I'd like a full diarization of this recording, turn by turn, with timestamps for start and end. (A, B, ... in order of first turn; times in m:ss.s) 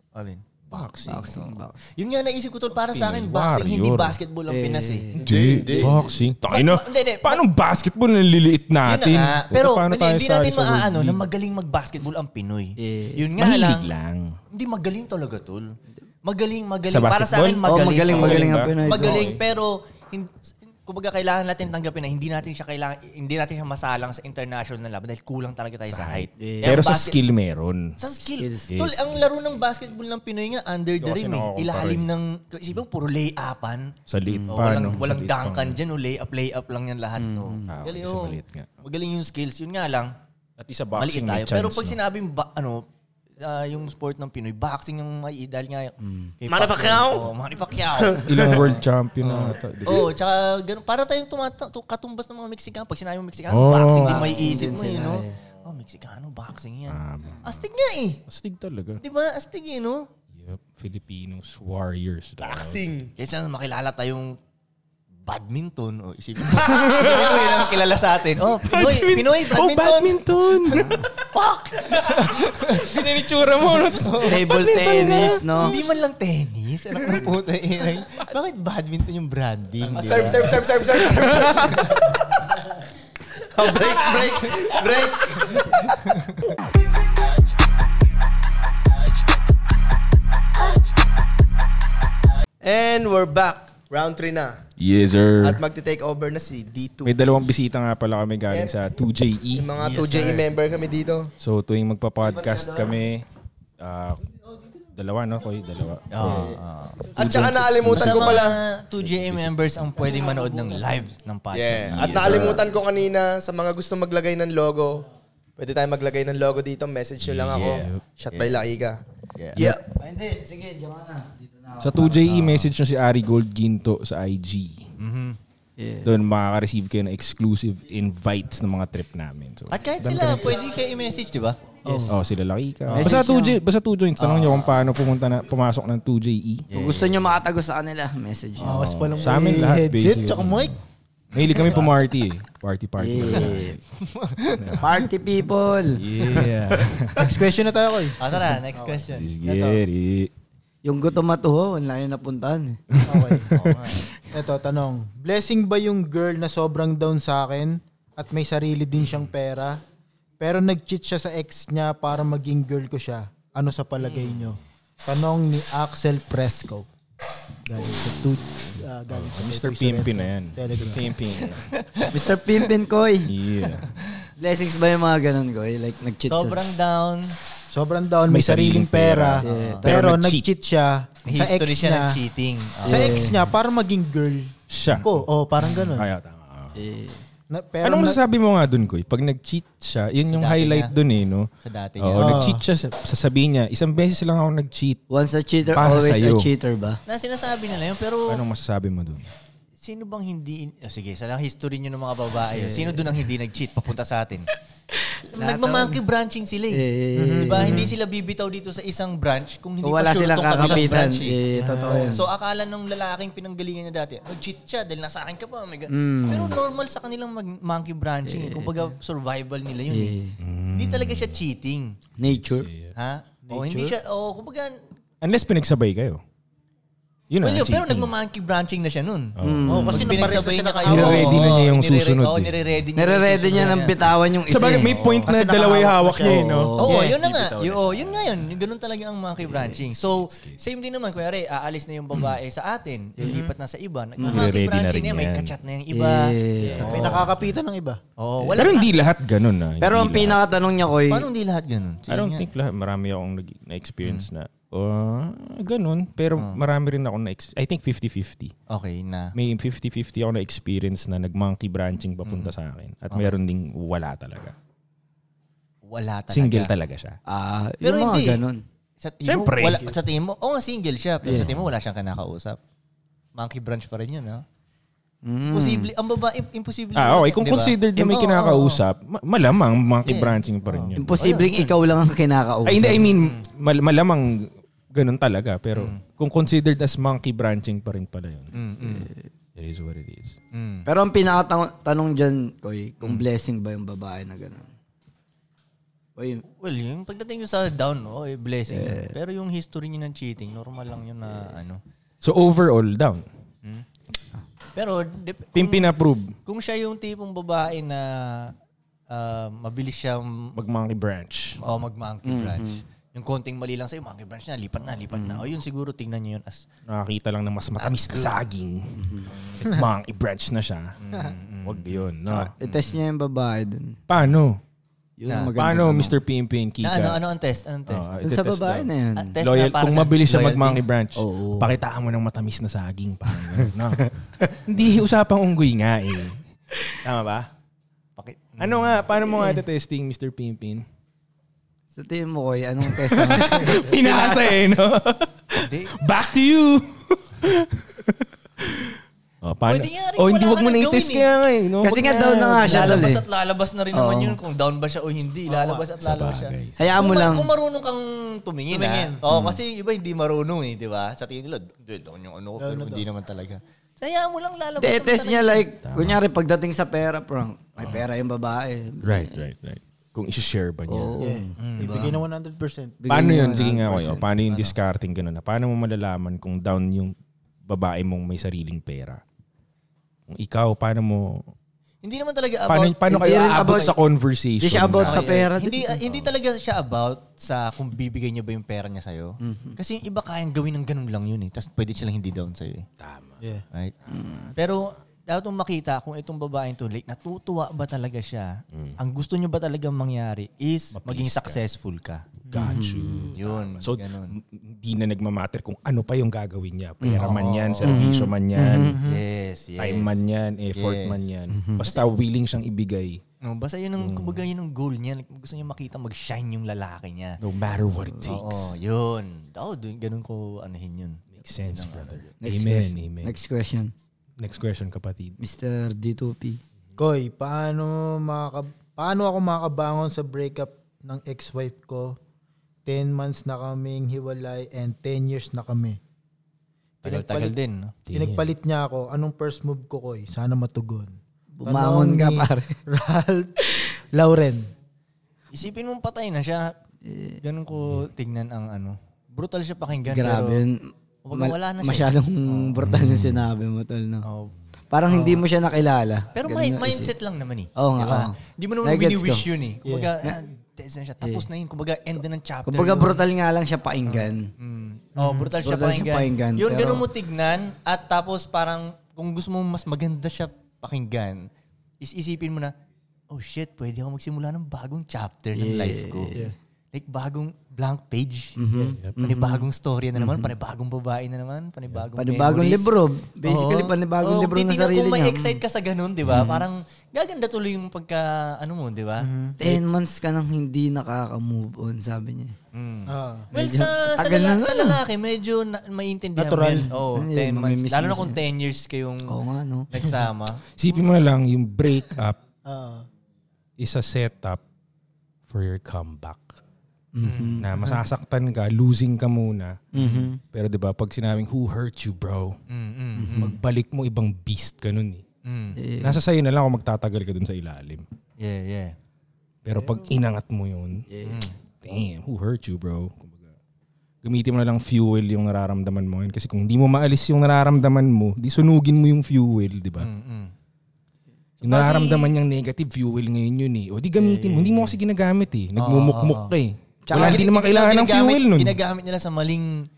0:00.1-0:05.1 A
0:00.7-0:01.4 B
0:01.0-0:01.8 C
0:02.9-0:04.2 B
0:04.5-0:06.0 C
0:05.2-0:11.2 B
0:05.2-0:05.9 D
0:06.5-0:07.4 A
0:08.8-0:13.9 A
0:12.8-0:13.3 C
0:13.4-0:14.4 B
0:14.5-0:27.2 A
0:16.9-0:19.4 B
0:17.6-0:19.3 C
0:25.9-0:28.0 B
0:26.4-0:26.8 C
0:28.0-0:33.9 A
0:28.4-0:28.7 C
0:28.7-0:29.6 B
0:31.0-0:32.1 B
0:34.1-0:35.8 B
0:34.3-0:34.7 C
0:34.5-0:40.1 A
0:37.2-0:37.7 C
0:37.7-0:38.7 B
0:40.6-0:42.0 B
0:40.9-0:42.8 A
0:43.4-0:58.2 A
0:46.0-0:46.3 C
0:46.5-0:47.2 D
0:47.9-0:48.6 D
0:48.2-0:50.1 B
0:53.5-0:54.4 B
0:53.9-0:55.3 C
0:56.9-0:57.6 B
0:58.3-0:59.0 B
0:59.0-1:00.1 A
1:00.3-1:02.9 B
1:02.4-1:03.1 D
1:03.2-1:04.4 A
1:05.2-1:10.2 A
1:06.7-1:07.0 B
1:06.8-1:07.7 D
1:08.6-1:11.1 B
1:10.7-1:11.0 C
1:11.2-1:20.6 A
1:11.9-1:15.7 B
1:14.2-1:15.8 C
1:19.8-1:22.4 D
1:21.2-1:21.5 B
1:21.4-1:21.8 A
1:23.5-1:26.2 D
1:32.6-1:34.6 D
1:34.8-1:35.6 B
1:35.4-1:37.1 D
1:37.0-1:39.7 B
1:39.5-1:41.3 D
1:39.8-1:40.5 A
1:41.4-1:43.2 B
1:42.4-1:42.9 C
1:43.8-1:44.2 B
1:44.9-1:46.6 B
1:46.1-1:52.6 A
1:47.1-1:50.0 B
1:47.2-1:48.6 D
1:50.0-1:50.8 C
1:51.5-1:55.0 D
1:51.8-1:52.6 B
1:55.6-1:59.0 D
1:57.2-1:58.0 B
1:57.5-1:58.6 A
1:59.4-1:59.6 A
1:59.6-1:59.8 D
1:59.6-2:02.6 C
2:01.8-2:04.9 B
2:05.0-2:05.4 A
2:05.8-2:06.1 C
2:06.0-2:10.6 B
2:09.7-2:11.6 A
2:11.8-2:12.2 E
2:11.8-2:12.2 C
2:12.1-2:16.7 B
2:12.9-2:13.2 A
2:12.9-2:13.6 C
2:14.2-2:14.8 A
2:16.7-2:17.2 A
2:16.7-2:18.9 C
2:18.6-2:20.8 E
2:18.6-2:20.7 B
2:21.3-2:23.8 B
2:23.0-2:23.8 C
2:24.0-2:24.9 A
2:24.5-2:24.9 B
2:24.8-2:26.0 C
2:26.0-2:27.4 B
2:27.2-2:29.8 E
2:28.2-2:29.3 A
2:29.1-2:30.3 B
2:30.8-2:32.8 C
2:32.9-2:33.8 B
2:33.0-2:33.6 E
2:33.5-2:34.1 A
2:34.3-2:39.8 E
2:40.4-2:46.9 E
2:47.6-2:51.1 E
2:47.8-2:51.7 B
2:51.4-2:52.3 A
2:52.1-2:53.3 C
2:53.2-2:53.9 B
2:53.8-2:54.1 A
2:54.4-2:56.6 C
2:56.3-2:57.3 A
2:57.7-3:02.2 E
2:58.3-3:00.5 B
2:59.4-3:00.1 C
2:59.5-2:59.8 A
3:01.2-3:03.2 A
3:02.8-3:03.4 C
3:02.8-3:06.1 E
3:04.7-3:05.2 B
3:05.8-3:06.8 B
3:06.7-3:07.2 C
3:07.5-3:08.2 E
3:07.8-3:11.5 B
3:10.3-3:10.9 A
3:11.6-3:12.5 A
3:12.0-3:15.0 B
3:12.2-3:12.6 E
3:15.1-3:17.0 C
3:15.7-3:16.5 B
3:17.1-3:18.4 A
3:18.3-3:19.3 B
3:19.8-3:24.5 A
3:22.5-3:23.2 C
3:24.9-3:26.0 C
3:25.3-3:26.8 A
3:26.7-3:27.9 C
3:27.1-3:27.9 E
3:27.4-3:40.2 A
3:29.8-3:32.2 C
3:30.6-3:30.9 E
3:31.5-3:32.2 E
3:35.9-3:36.6 C
3:38.2-3:38.9 C
3:39.9-3:40.4 C
3:40.4-3:41.4 B
3:40.7-3:42.0 A
3:42.2-3:42.7 C
3:42.2-3:42.9 B
3:43.0-3:44.7 A
3:43.5-3:44.0 E
3:45.2-3:46.2 B
3:47.3-3:48.1 B
3:47.4-3:49.3 A
3:49.4-3:50.3 B
3:49.4-3:50.3 C
3:49.7-3:51.5 E
3:49.9-3:54.0 A
3:50.8-3:52.7 B
3:51.0-3:51.3 C
3:53.0-3:55.0 C
3:54.4-3:58.6 B
3:54.8-3:55.3 A
3:55.2-3:57.2 E
3:56.2-3:57.1 C
3:56.8-4:07.2 A
3:59.6-4:00.6 B
4:03.2-4:03.5 E
4:04.2-4:04.5 C
4:04.2-4:05.5 B
4:05.9-4:07.2 C
4:06.6-4:08.0 E
4:06.7-4:07.5 B
4:08.2-4:09.0 A
4:08.5-4:10.4 B
4:09.8-4:11.3 C
4:11.1-4:12.4 A
4:12.1-4:18.5 B
4:18.7-4:19.3 A
4:19.3-4:24.5 B
4:22.2-4:22.5 A
4:25.8-4:26.7 A
4:26.3-4:27.2 B
4:27.3-4:28.6 C
4:27.8-4:28.4 A
4:29.0-4:32.6 A
4:29.2-4:29.9 B
4:31.2-4:31.5 C
4:31.3-4:31.6 B
4:33.4-4:34.4 A
4:35.2-4:35.9 C
4:35.5-4:38.8 A
4:36.9-4:41.4 B
4:40.0-4:41.8 A
4:41.0-4:43.1 C
4:42.6-4:48.5 B
4:43.2-4:43.4 A
4:45.7-4:46.0 A
4:48.5-4:49.1 A
4:48.8-4:49.2 C
4:49.6-4:50.4 B
4:50.5-4:50.9 A
4:50.8-4:54.7 C
4:56.2-4:56.4 C
4:56.6-5:01.8 A
4:58.7-4:59.1 C
5:02.2-5:03.2 B
5:04.7-5:05.9 A
5:05.5-5:06.3 B
5:06.4-5:08.5 A
5:09.1-5:10.5 A
5:10.5-5:11.6 B
5:11.6-5:16.6 A
5:12.2-5:12.8 C
5:15.1-5:15.4 C
5:16.9-5:21.0 B
5:17.8-5:18.4 A
5:19.0-5:19.3 C
5:19.3-5:19.6 A
5:21.0-5:22.1 A
5:21.6-5:22.5 B
5:22.3-5:24.0 C
5:22.6-5:23.0 A
5:24.1-5:24.6 B
5:25.2-5:26.2 C
5:25.3-5:25.5 A
5:25.5-5:27.2 B
5:26.8-5:28.0 A
5:27.9-5:28.9 B
5:28.2-5:29.3 C
5:29.2-5:30.8 A
5:29.4-5:37.5 B
5:31.2-5:31.7 C
5:38.2-5:39.0 A
5:38.6-5:40.8 B
5:41.9-5:44.5 C
5:42.9-5:53.1 B
5:45.6-5:46.0 A
5:49.6-5:51.3 A
5:51.8-5:53.2 C
5:52.6-6:05.7 A
5:53.9-5:54.4 C
5:55.5-5:55.9 E
5:56.0-5:56.9 B
5:56.8-5:57.5 C
5:58.7-5:59.2 E
5:59.3-5:59.6 B
6:02.6-6:03.0 E
6:04.8-6:09.4 C
6:05.8-6:06.2 B
6:07.8-6:08.0 B
6:09.0-6:11.2 B
6:10.9-6:12.2 C
6:11.2-6:13.0 E
6:11.6-6:12.1 A
6:13.0-6:14.3 C
6:13.1-6:17.1 B
6:14.4-6:14.7 A
6:17.7-6:19.2 B
6:20.3-6:21.4 B
6:22.0-6:23.9 A
6:22.7-6:25.3 B
6:23.1-6:24.0 C
6:24.6-6:26.0 C
6:25.0-6:32.9 A
6:29.4-6:29.8 C
6:33.0-6:33.4 B
6:34.1-6:34.5 B
6:34.1-6:34.5 C
6:34.6-6:42.2 A
6:38.7-6:39.0 B
6:40.9-6:41.6 B
6:42.5-6:42.8 E
6:42.5-6:49.0 B
6:42.6-6:43.3 C
6:43.3-6:44.4 A
6:47.0-6:49.0 C
6:47.2-6:48.1 A
6:48.8-6:49.2 E
6:49.0-6:50.2 A
6:49.8-6:53.2 B
6:50.7-6:51.2 A
6:51.5-6:51.9 C
6:53.4-6:57.4 A
6:54.0-6:54.4 B
6:57.4-6:58.8 B
6:58.2-7:02.3 A
7:01.3-7:03.4 B
7:02.4-7:03.9 C
7:04.4-7:05.4 B
7:05.4-7:06.6 C
7:07.0-7:12.2 E
7:12.8-7:16.0 E
7:17.0-7:17.5 E
7:17.0-7:17.9 A
7:18.1-7:18.5 B
7:18.1-7:24.7 E
7:21.6-7:22.8 C
7:25.5-7:26.7 A
7:27.0-7:27.4 C
7:27.4-7:30.6 A
7:30.0-7:34.2 C
7:31.2-7:32.8 A
7:32.8-7:33.4 B
7:34.2-7:34.5 A
7:34.9-7:37.1 C
7:35.1-7:35.4 E
7:36.3-7:43.2 A
7:37.8-7:39.5 C
7:39.9-7:40.1 E
7:41.2-7:41.5 C
7:42.6-7:44.5 C
7:44.0-7:51.5 A
7:45.2-7:45.5 E
7:45.6-7:47.1 C
7:52.0-7:52.7 A
7:53.3-7:56.4 A
7:55.5-7:56.5 C
7:56.9-7:58.6 A
7:58.6-8:00.5 C
7:59.2-8:02.9 A
8:02.2-8:05.6 C
8:03.4-8:09.8 A
8:06.2-8:06.7 C
8:09.2-8:09.6 E
8:09.6-8:12.6 C
8:12.7-8:19.3 A
8:13.1-8:13.5 E
8:13.5-8:15.0 C
8:16.4-8:16.9 E
8:16.9-8:18.4 C
8:19.3-8:19.9 C
8:19.9-8:20.6 A
8:20.8-8:22.4 B
8:22.6-8:23.0 E
8:23.8-8:24.6 B
8:25.5-8:26.6 B
8:27.1-8:27.8 C
8:27.2-8:27.6 A
8:27.6-8:29.8 B
8:29.9-8:30.4 C
8:29.9-8:30.3 A
8:30.5-8:32.6 B
8:32.7-8:33.5 A
8:33.2-8:33.6 C
8:33.4-8:35.2 B
8:35.4-8:35.8 A
8:35.8-8:36.2 C
8:36.0-8:38.0 B
8:38.4-8:39.0 A
8:39.6-8:41.0 B
8:41.1-8:41.4 C
8:41.2-8:41.5 A
8:41.8-8:43.5 B
8:44.2-8:50.1 B
8:50.0-8:50.5 A
8:51.6-8:52.3 A
8:51.6-8:58.8 B
8:54.2-8:54.9 A
8:55.8-8:56.5 A
8:57.0-8:57.4 C
8:57.1-8:59.9 A